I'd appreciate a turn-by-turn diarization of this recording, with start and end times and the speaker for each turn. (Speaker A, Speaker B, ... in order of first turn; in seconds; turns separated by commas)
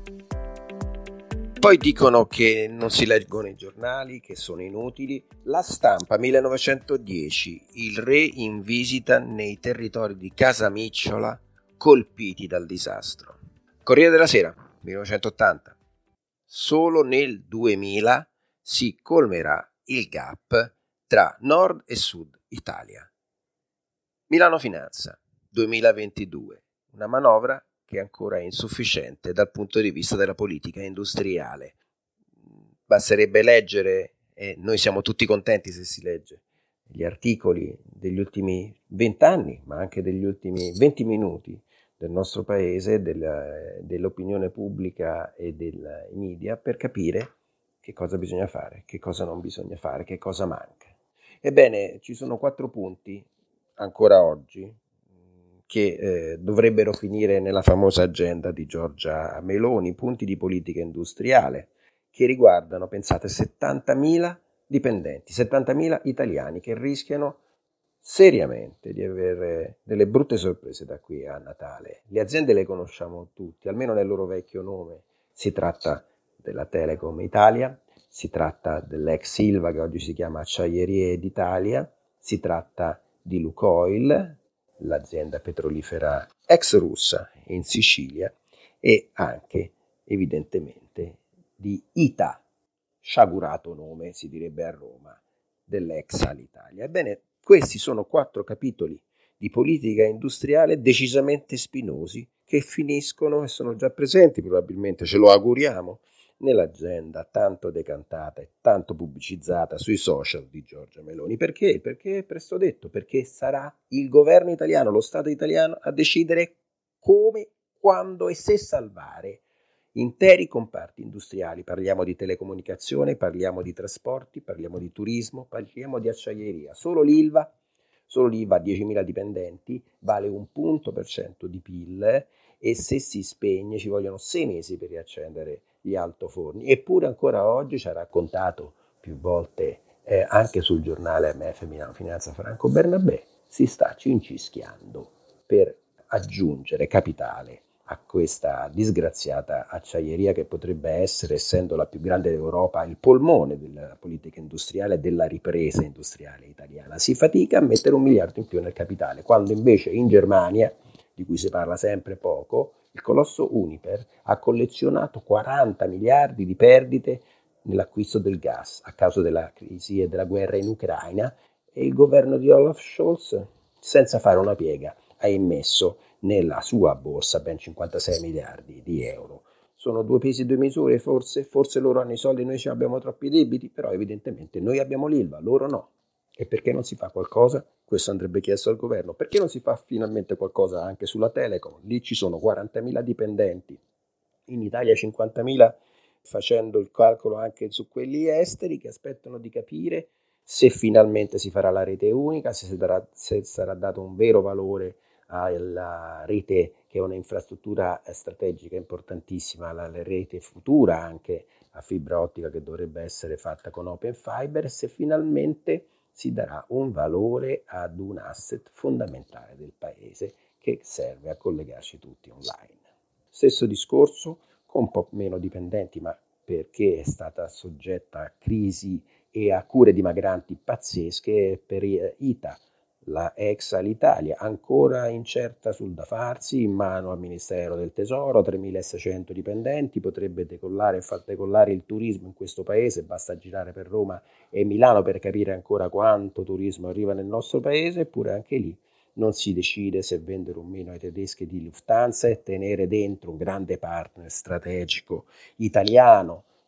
Speaker A: 1.6-15.8, Speaker A: 16.5-23.1, Speaker A: 24.3-31.8, Speaker A: 32.9-50.9, Speaker A: 51.4-54.8, Speaker A: 55.7-67.4, Speaker A: 68.0-92.4, Speaker A: 93.0-119.4, Speaker A: 119.9-127.5, Speaker A: 128.1-193.8, Speaker A: 194.5-222.8, Speaker A: 223.3-256.5